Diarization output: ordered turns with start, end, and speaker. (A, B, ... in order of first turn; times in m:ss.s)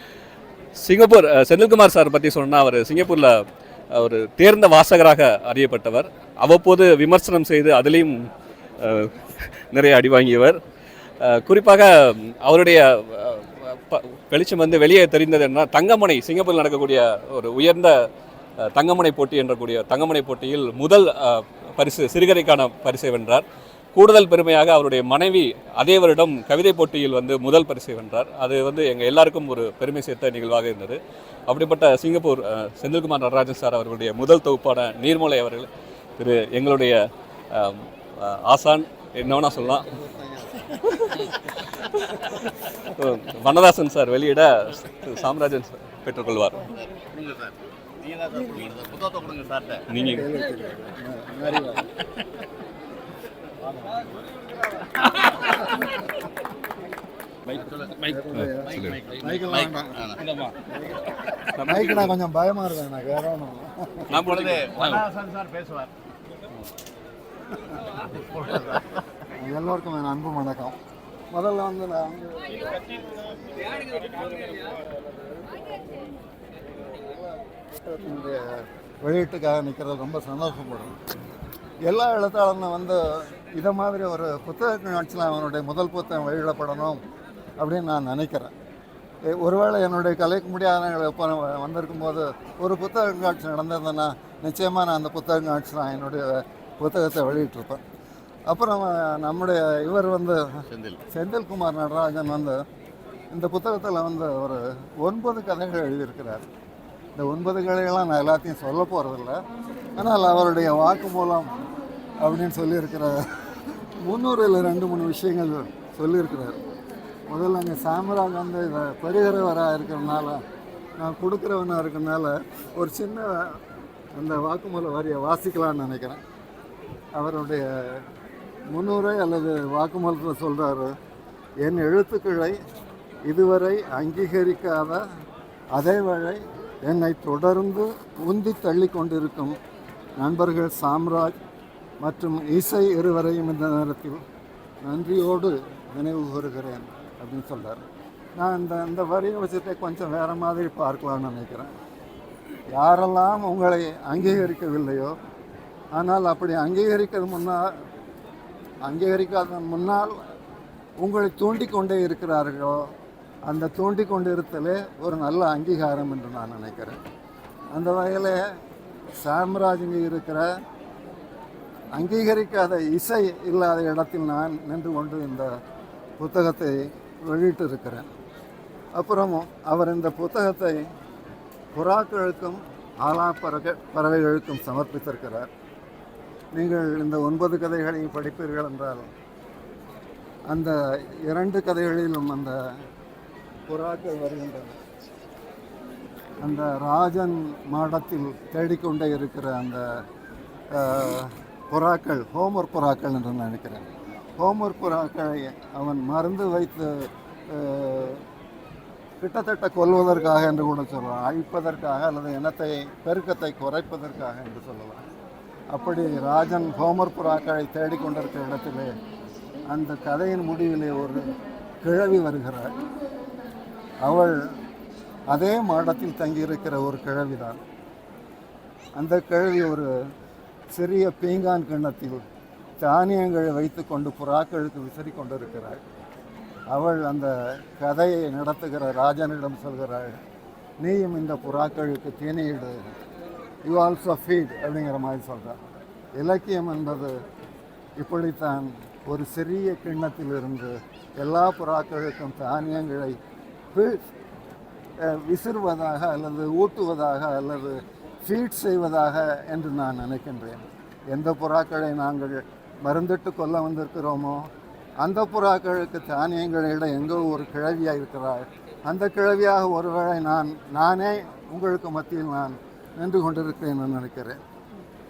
0:00.8-0:08.3 A
0:08.8-0:10.6 A
0:11.2-0:18.0 A
0:18.6-0:23.4 A
0:23.9-0:37.0 A
0:37.5-0:39.9 A
0:40.1-0:40.5 B
0:42.9-0:46.6 A
0:46.8-0:49.8 B
0:49.9-0:50.2 A
0:50.0-0:51.9 C
0:53.6-0:54.0 C
0:55.0-0:55.7 B
0:57.5-0:58.2 B
0:58.1-1:00.2 C
0:58.7-1:00.6 B
1:00.7-1:01.0 C
1:01.6-1:02.1 A
1:01.6-1:04.1 C
1:04.1-1:05.0 A
1:04.2-1:05.9 B
1:08.0-1:09.0 B
1:09.3-1:10.8 C
1:11.3-1:15.8 C
1:16.8-1:21.0 C
1:21.8-1:27.0 C
1:27.6-1:28.5 C
1:29.3-1:37.8 C
1:38.5-1:42.6 C
1:40.7-1:41.0 B
1:43.3-1:46.4 C
1:47.2-1:49.4 C
1:50.0-1:51.6 C
1:52.2-1:53.2 C
1:54.0-1:56.6 C
1:57.3-2:00.4 C
2:01.0-2:03.6 C
2:04.1-2:06.2 C
2:07.1-2:08.0 C
2:08.7-2:10.9 C
2:11.6-2:12.6 C
2:13.2-2:15.0 C
2:15.7-2:19.6 C
2:20.2-2:21.4 C
2:22.0-2:24.2 C
2:24.8-2:27.8 C
2:28.4-2:31.7 C
2:32.7-2:35.1 C
2:35.9-2:37.7 C
2:38.8-2:40.1 C
2:41.0-2:42.9 C
2:43.4-2:47.0 C
2:47.7-2:48.4 C
2:49.2-2:50.4 C
2:51.9-2:55.5 C
2:56.2-2:58.1 C
2:58.9-3:00.8 C
3:01.7-3:05.5 C
3:06.5-3:09.0 C
3:10.5-3:12.6 C
3:13.7-3:14.8 C
3:16.4-3:19.8 C
3:20.7-3:23.9 C
3:24.4-3:28.2 C
3:29.2-3:35.0 C
3:35.7-3:38.9 C
3:39.7-3:41.2 C
3:41.8-3:42.8 C
3:44.0-3:44.4 C
3:45.3-3:47.6 C
3:49.0-3:49.9 C
3:50.7-3:52.2 C
3:52.8-3:55.8 C
3:56.7-4:00.2 C
4:00.8-4:02.9 C
4:03.6-4:05.6 C
4:06.2-4:07.1 C
4:08.0-4:13.2 C
4:13.7-4:14.0 C
4:15.0-4:24.4 C
4:25.0-4:34.4 C